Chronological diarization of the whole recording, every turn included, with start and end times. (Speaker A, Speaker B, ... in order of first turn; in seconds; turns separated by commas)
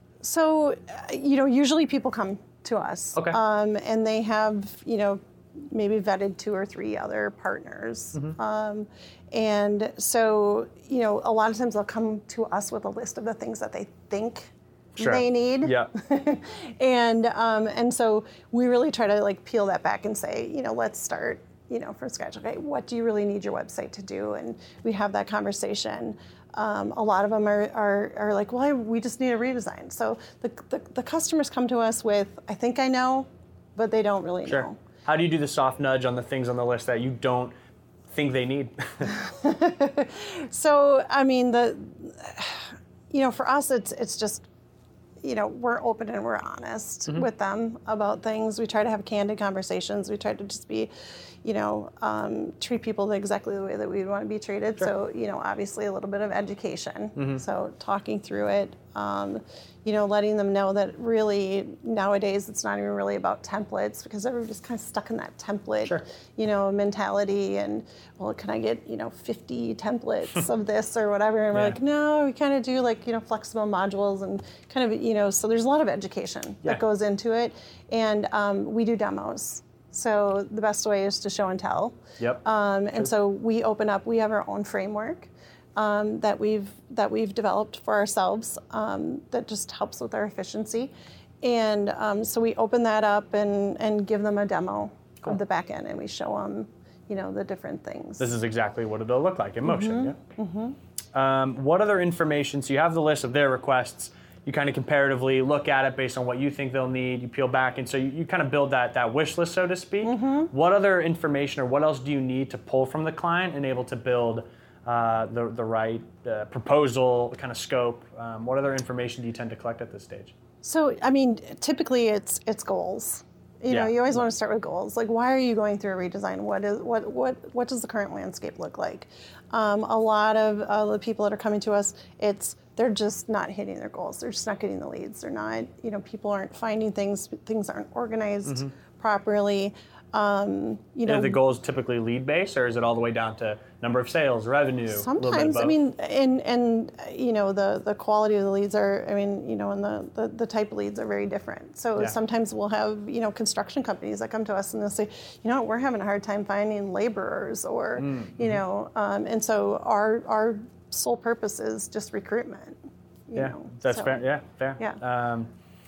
Speaker A: 0.2-34.8, Speaker B: 15.0-15.9, Speaker B: 34.5-37.5, Speaker B: 38.1-39.1, Speaker A: 39.1-44.5, Speaker A: 45.2-50.9, Speaker A: 51.4-98.3, Speaker B: 57.1-57.4, Speaker B: 71.5-71.8, Speaker B: 98.2-100.2, Speaker A: 99.6-100.8, Speaker B: 101.1-120.3, Speaker A: 110.0-110.5, Speaker A: 120.6-141.4, Speaker B: 123.7-123.9, Speaker B: 141.1-145.7, Speaker A: 144.9-164.2, Speaker B: 158.0-158.6, Speaker B: 163.3-165.5